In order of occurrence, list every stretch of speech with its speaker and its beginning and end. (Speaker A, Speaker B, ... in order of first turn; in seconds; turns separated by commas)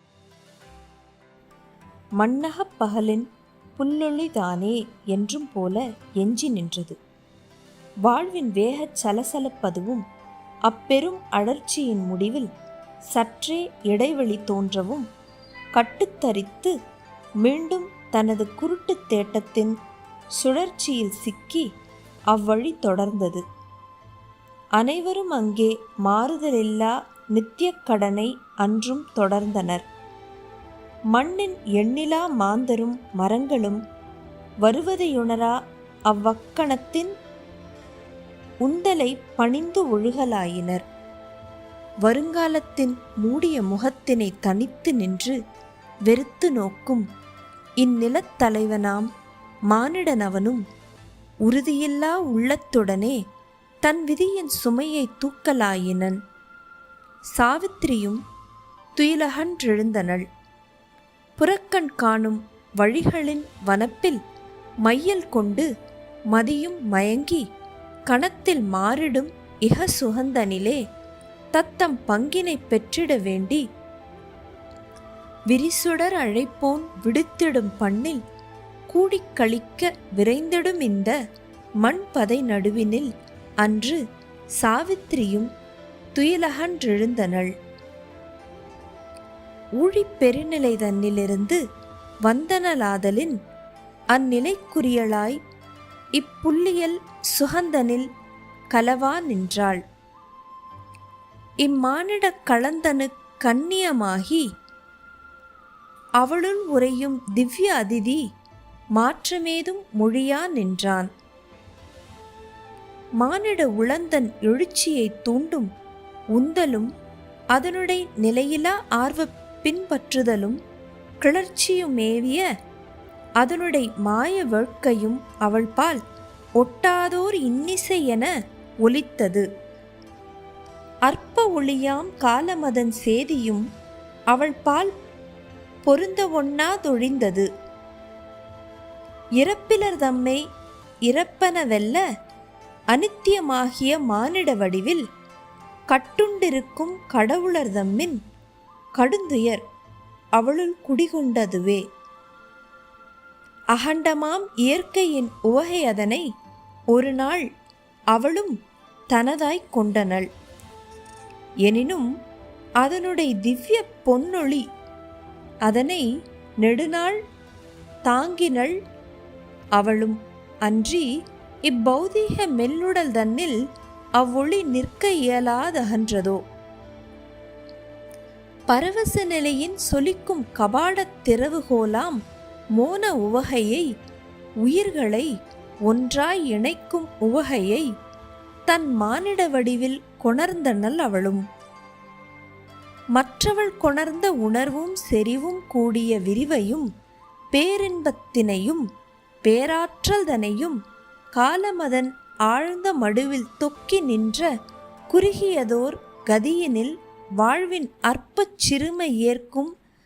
Speaker A: 2.2-7.0, Speaker A: 8.1-10.0, Speaker A: 10.7-12.5, Speaker A: 13.1-15.1, Speaker A: 15.8-16.7, Speaker A: 17.4-19.7, Speaker A: 20.4-21.7, Speaker A: 22.3-23.4, Speaker A: 24.8-29.8, Speaker A: 31.1-33.8, Speaker A: 34.6-35.5, Speaker A: 36.1-37.1, Speaker A: 38.6-40.8, Speaker A: 42.0-45.4, Speaker A: 46.0-47.0, Speaker A: 47.8-49.1, Speaker A: 49.7-50.6, Speaker A: 51.4-53.2, Speaker A: 53.8-56.2, Speaker A: 57.3-58.2, Speaker A: 59.0-60.2, Speaker A: 61.4-64.2, Speaker A: 64.8-65.7, Speaker A: 66.3-67.5, Speaker A: 68.1-70.8, Speaker A: 71.5-73.6, Speaker A: 75.5-78.2, Speaker A: 78.9-81.1, Speaker A: 81.8-83.1, Speaker A: 83.6-84.0, Speaker A: 84.5-85.5, Speaker A: 86.1-87.5, Speaker A: 89.8-91.6, Speaker A: 92.2-93.3, Speaker A: 94.1-95.4, Speaker A: 96.2-98.1, Speaker A: 98.7-99.8, Speaker A: 101.6-104.5, Speaker A: 106.2-108.2, Speaker A: 109.0-111.1, Speaker A: 113.2-115.7, Speaker A: 116.3-116.9, Speaker A: 117.5-120.6, Speaker A: 121.2-122.5, Speaker A: 123.4-126.0, Speaker A: 126.6-128.3, Speaker A: 128.8-129.4, Speaker A: 131.1-133.7, Speaker A: 134.3-134.9, Speaker A: 135.8-137.5, Speaker A: 139.4-140.4, Speaker A: 141.1-142.0, Speaker A: 142.9-145.0, Speaker A: 145.9-148.2, Speaker A: 149.0-149.6, Speaker A: 150.3-151.8, Speaker A: 153.7-156.2, Speaker A: 156.9-157.5, Speaker A: 158.1-158.6, Speaker A: 159.1-160.3, Speaker A: 161.6-162.1, Speaker A: 162.8-164.7, Speaker A: 165.7-166.1, Speaker A: 166.6-167.2, Speaker A: 168.1-168.7, Speaker A: 169.8-171.1, Speaker A: 171.6-173.6, Speaker A: 174.2-176.4, Speaker A: 178.7-182.2, Speaker A: 182.8-183.9, Speaker A: 184.6-185.3, Speaker A: 185.8-187.9, Speaker A: 188.7-191.4, Speaker A: 193.1-196.9, Speaker A: 197.5-198.8, Speaker A: 199.4-200.8, Speaker A: 201.3-204.5, Speaker A: 205.1-209.7